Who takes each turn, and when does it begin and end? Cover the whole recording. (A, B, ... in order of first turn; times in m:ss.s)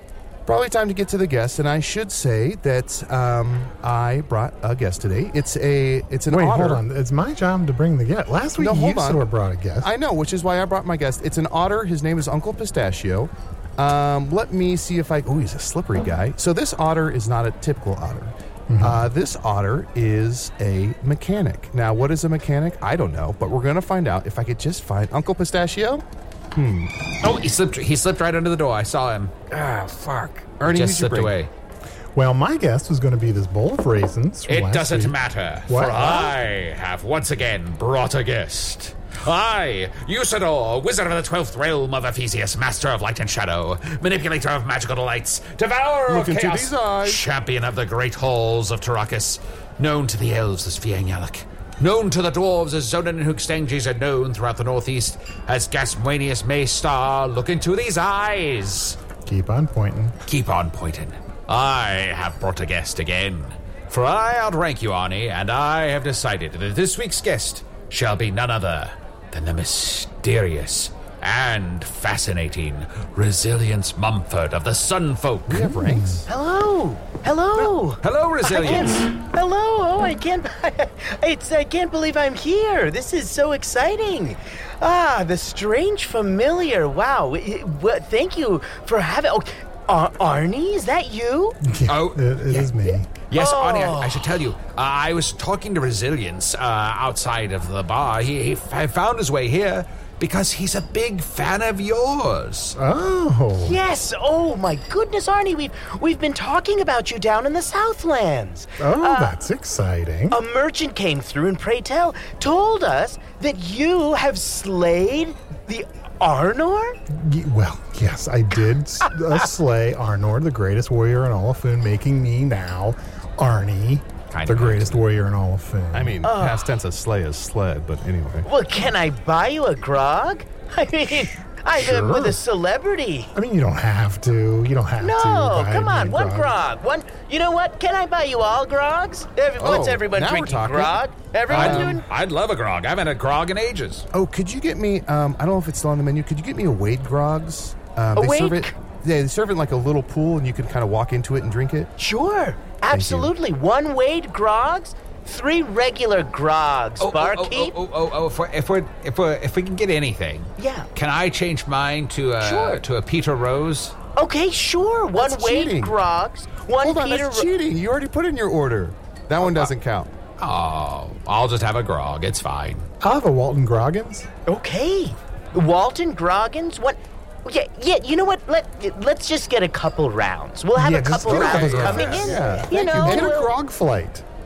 0:00.5-0:06.8 A
0:06.3-0:09.9 B
0:08.6-0:09.3 A
0:09.8-0:26.9 A
0:18.7-0:19.1 B
0:27.2-0:29.3 C
0:29.5-0:31.4 A
0:30.6-0:31.5 C
0:32.2-0:35.2 B
0:34.5-0:59.0 C
0:35.7-0:36.3 B
0:46.1-0:47.2 A
0:59.3-1:00.2 B
1:00.3-1:15.7 C
1:15.5-1:16.3 A
1:15.7-1:16.2 B
1:16.3-1:31.6 D
1:17.6-1:19.1 C
1:31.6-1:33.1 B
1:31.9-1:32.7 C
1:32.9-1:34.3 D
1:33.3-1:42.8 C
1:42.8-1:43.8 B
1:43.6-1:49.4 D
1:48.8-1:50.4 B
1:50.3-1:57.0 D
1:57.1-2:06.2 B
2:04.3-2:05.0 C
2:05.9-2:08.5 A
2:06.2-2:06.7 D
2:08.4-2:13.3 D
2:11.8-2:12.4 B
2:13.4-2:16.6 B
2:15.0-2:22.0 D
2:19.6-2:22.0 A
2:21.5-2:24.0 C
2:24.1-2:31.9 A
2:28.2-2:28.8 D
2:32.0-2:37.7 D
2:32.9-2:33.3 A
2:37.0-2:44.0 C
2:40.6-2:40.9 D
2:42.4-2:42.8 D
2:44.2-2:47.5 D
2:45.2-2:46.0 A
2:46.8-2:50.1 A
2:50.4-2:52.9 C
2:53.0-2:54.3 B
2:54.5-3:03.5 D
3:00.8-3:04.2 B
3:01.2-3:03.4 A
3:01.3-3:02.0 C